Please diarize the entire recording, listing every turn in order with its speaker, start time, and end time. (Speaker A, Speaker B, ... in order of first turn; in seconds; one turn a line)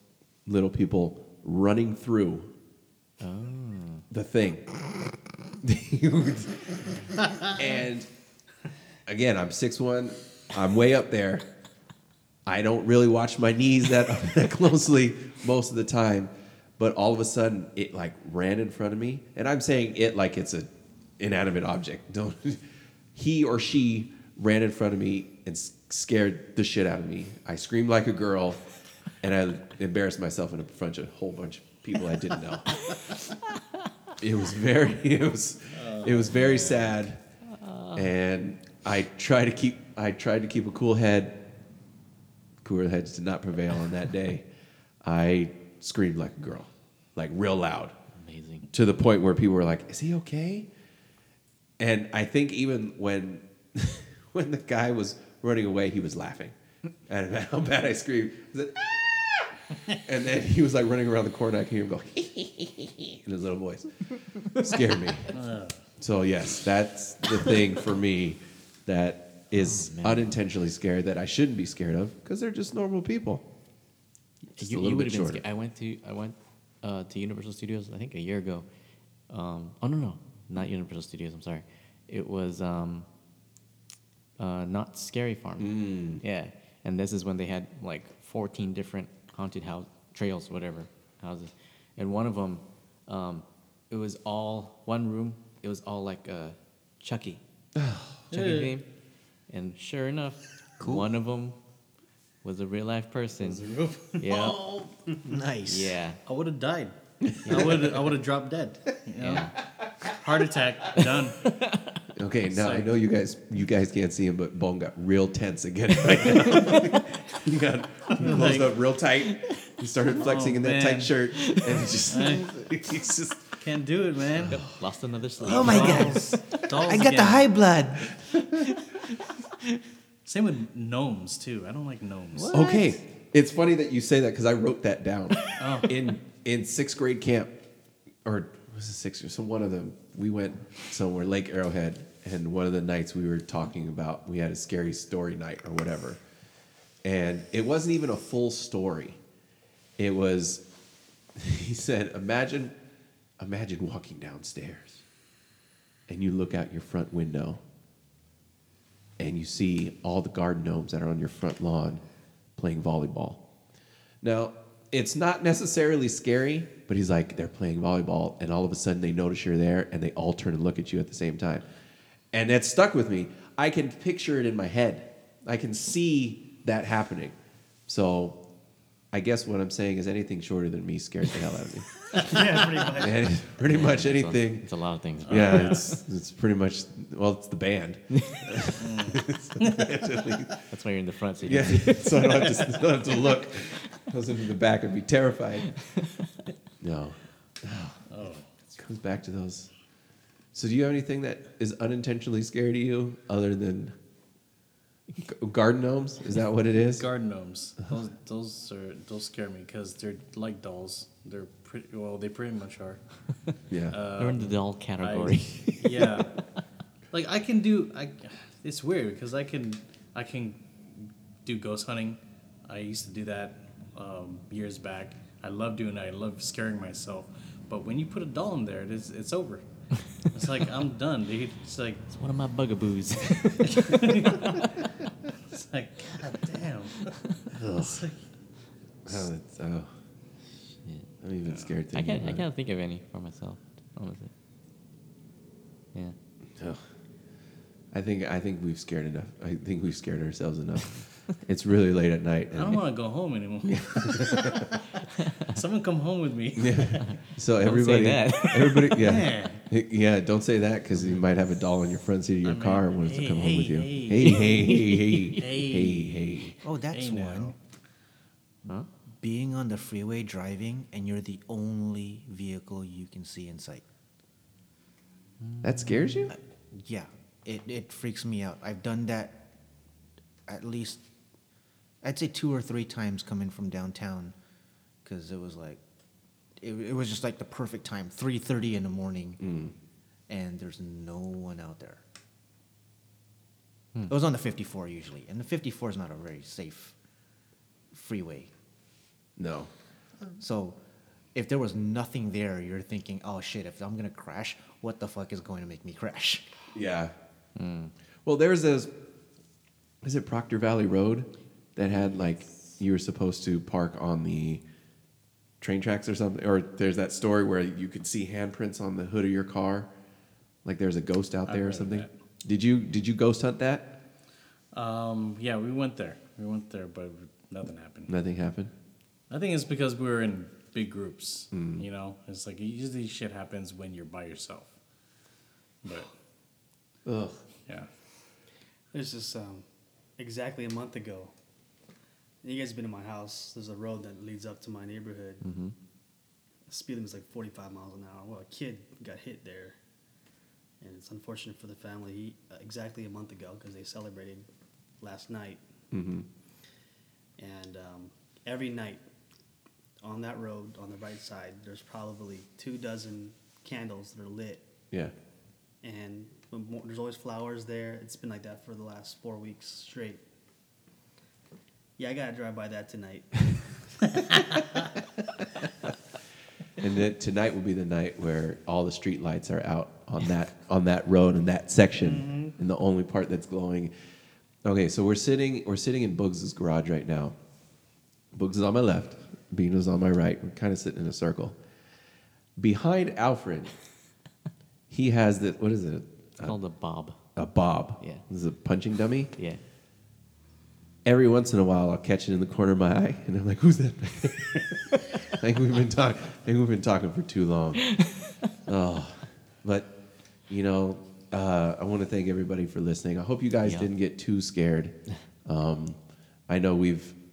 Speaker A: 0.5-2.5
Speaker B: 3.2-4.0
Speaker A: 4.1-4.7
Speaker A: 5.6-8.1
Speaker A: 9.1-11.4
Speaker A: 12.4-20.7
Speaker A: 21.2-22.6
Speaker A: 23.1-28.6
Speaker A: 29.2-32.9
Speaker A: 34.2-37.2
Speaker C: 35.7-36.9
Speaker B: 37.5-38.1
Speaker A: 37.9-41.4
Speaker A: 42.6-44.5
Speaker A: 45.0-47.9
Speaker B: 48.1-48.7
Speaker A: 48.7-50.7
Speaker A: 51.8-56.5
Speaker A: 57.1-65.3
Speaker C: 65.3-65.8
Speaker A: 66.0-73.5
Speaker B: 69.5-70.4
Speaker B: 74.5-78.7
Speaker A: 74.6-75.4
Speaker B: 79.3-83.1
Speaker B: 84.4-97.4
Speaker A: 85.6-86.2
Speaker A: 97.8-98.1
Speaker C: 98.3-98.7
Speaker B: 98.3-98.8
Speaker B: 99.5-101.6
Speaker D: 100.8-101.0
Speaker B: 102.4-103.7
Speaker C: 103.4-104.3
Speaker B: 104.2-104.6
Speaker D: 104.3-106.0
Speaker B: 105.7-106.2
Speaker C: 106.2-106.9
Speaker A: 107.2-107.7
Speaker B: 107.4-107.7
Speaker C: 107.5-111.4
Speaker B: 109.2-109.5
Speaker B: 111.4-112.0
Speaker A: 112.1-123.6
Speaker C: 112.5-113.0
Speaker B: 116.6-116.9
Speaker C: 118.1-118.8
Speaker C: 120.1-121.2
Speaker C: 121.9-122.5
Speaker C: 123.6-124.6
Speaker B: 124.5-127.0
Speaker D: 125.4-128.1
Speaker C: 125.4-127.5
Speaker A: 128.3-128.6
Speaker B: 128.6-129.0
Speaker C: 130.2-132.6
Speaker B: 132.3-132.9
Speaker A: 132.5-137.6
Speaker C: 135.6-135.9
Speaker A: 138.2-146.2
Speaker A: 147.0-149.2
Speaker A: 150.0-150.6
Speaker A: 151.3-152.7
Speaker A: 153.4-155.0
Speaker A: 156.1-157.6
Speaker A: 159.2-162.0
Speaker A: 162.6-163.4
Speaker A: 164.2-171.6
Speaker A: 172.3-177.3
Speaker A: 177.9-178.4
Speaker A: 179.1-182.0
Speaker E: 182.1-183.4
Speaker A: 182.9-184.6
Speaker B: 183.6-185.8
Speaker C: 185.2-185.9
Speaker A: 185.2-190.5
Speaker C: 188.8-190.0
Speaker B: 190.7-192.4
Speaker A: 191.4-195.8
Speaker A: 196.8-198.0
Speaker C: 198.1-198.5
Speaker A: 198.7-199.7
Speaker A: 200.5-203.9
Speaker A: 205.2-207.1
Speaker C: 206.7-213.0
Speaker A: 213.7-214.0
Speaker C: 213.9-216.3
Speaker B: 214.2-216.1
Speaker C: 217.1-229.6
Speaker C: 230.3-232.0
Speaker B: 232.1-234.7
Speaker C: 233.8-234.6
Speaker C: 235.5-238.2
Speaker A: 237.5-238.0
Speaker A: 239.1-239.9
Speaker A: 241.2-242.4
Speaker B: 241.9-244.3
Speaker A: 247.9-252.8
Speaker C: 252.5-254.9
Speaker A: 253.6-254.8
Speaker C: 255.4-257.2
Speaker A: 256.6-266.6
Speaker B: 257.6-259.1
Speaker C: 259.0-259.6
Speaker C: 262.4-267.6
Speaker B: 264.4-265.4
Speaker D: 266.6-267.5
Speaker D: 269.2-273.8
Speaker B: 275.4-276.1
Speaker A: 275.6-276.4
Speaker D: 276.3-279.4
Speaker D: 280.5-281.0
Speaker D: 282.0-284.3
Speaker D: 285.0-285.8
Speaker D: 286.6-289.4
Speaker A: 289.4-289.7
Speaker D: 290.3-292.0
Speaker D: 294.1-296.9
Speaker D: 297.9-298.5
Speaker A: 299.4-299.7
Speaker D: 300.4-300.8
Speaker D: 301.3-306.5
Speaker A: 306.7-307.1
Speaker B: 307.6-307.9
Speaker A: 308.2-308.9
Speaker A: 310.0-314.6
Speaker A: 315.6-319.9
Speaker A: 320.6-324.0
Speaker C: 321.4-322.1
Speaker C: 324.7-328.1
Speaker A: 328.1-328.7
Speaker C: 329.3-334.7
Speaker A: 331.5-331.8
Speaker C: 335.8-336.1
Speaker A: 337.1-337.4
Speaker E: 338.9-339.6
Speaker E: 340.2-341.3
Speaker E: 342.4-345.4
Speaker B: 345.5-345.7
Speaker E: 346.7-349.8
Speaker E: 350.8-354.4
Speaker E: 355.0-355.6
Speaker A: 355.9-356.2
Speaker E: 357.4-359.0
Speaker E: 360.0-364.6
Speaker E: 365.8-370.2
Speaker E: 372.0-373.6
Speaker A: 376.8-383.9
Speaker E: 382.0-382.5
Speaker A: 384.6-387.4
Speaker A: 388.3-391.6
Speaker A: 392.6-393.7
Speaker A: 394.9-396.6
Speaker B: 396.4-397.2
Speaker A: 397.4-399.3
Speaker A: 401.0-407.9
Speaker B: 407.9-408.3
Speaker A: 408.7-409.9
Speaker A: 410.5-417.2